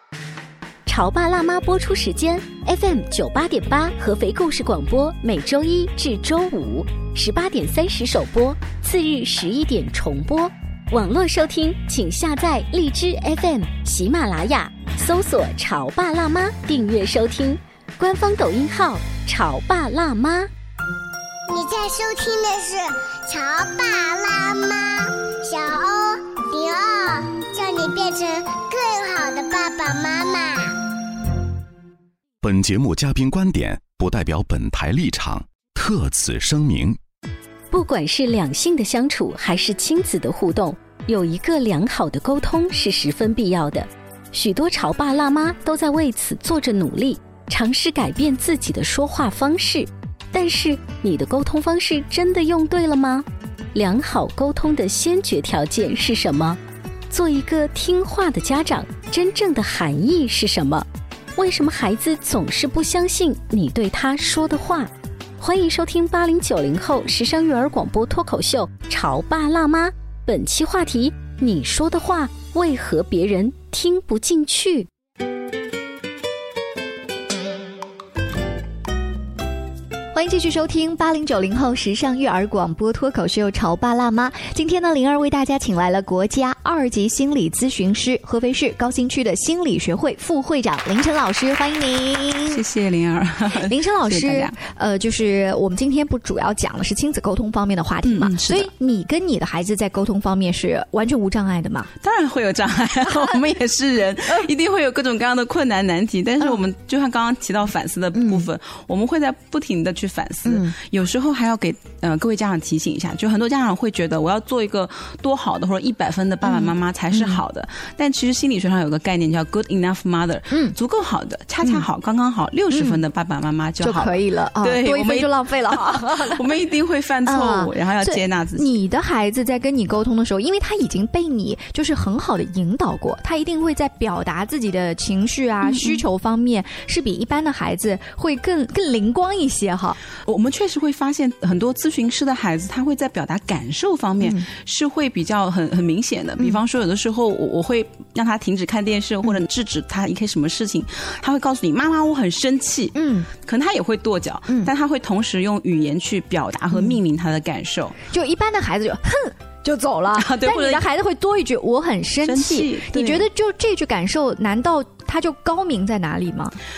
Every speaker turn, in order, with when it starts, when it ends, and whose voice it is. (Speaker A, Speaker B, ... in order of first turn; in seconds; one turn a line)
Speaker A: 0.9-20.5
Speaker B: 21.5-30.8
Speaker C: 32.4-37.0
Speaker A: 37.7-74.9
Speaker D: 80.1-92.6
Speaker E: 92.5-94.5
Speaker D: 93.7-101.9
Speaker E: 98.0-98.7
Speaker E: 102.0-128.7
Speaker D: 108.1-108.5
Speaker D: 110.4-110.7
Speaker D: 116.4-117.4
Speaker D: 120.5-120.8
Speaker D: 122.7-123.0
Speaker D: 123.8-126.4
Speaker D: 127.2-140.0
Speaker E: 135.6-136.0
Speaker E: 140.2-158.0
Speaker D: 152.9-153.3
Speaker D: 158.1-166.5
Speaker E: 160.1-160.8
Speaker E: 162.2-163.3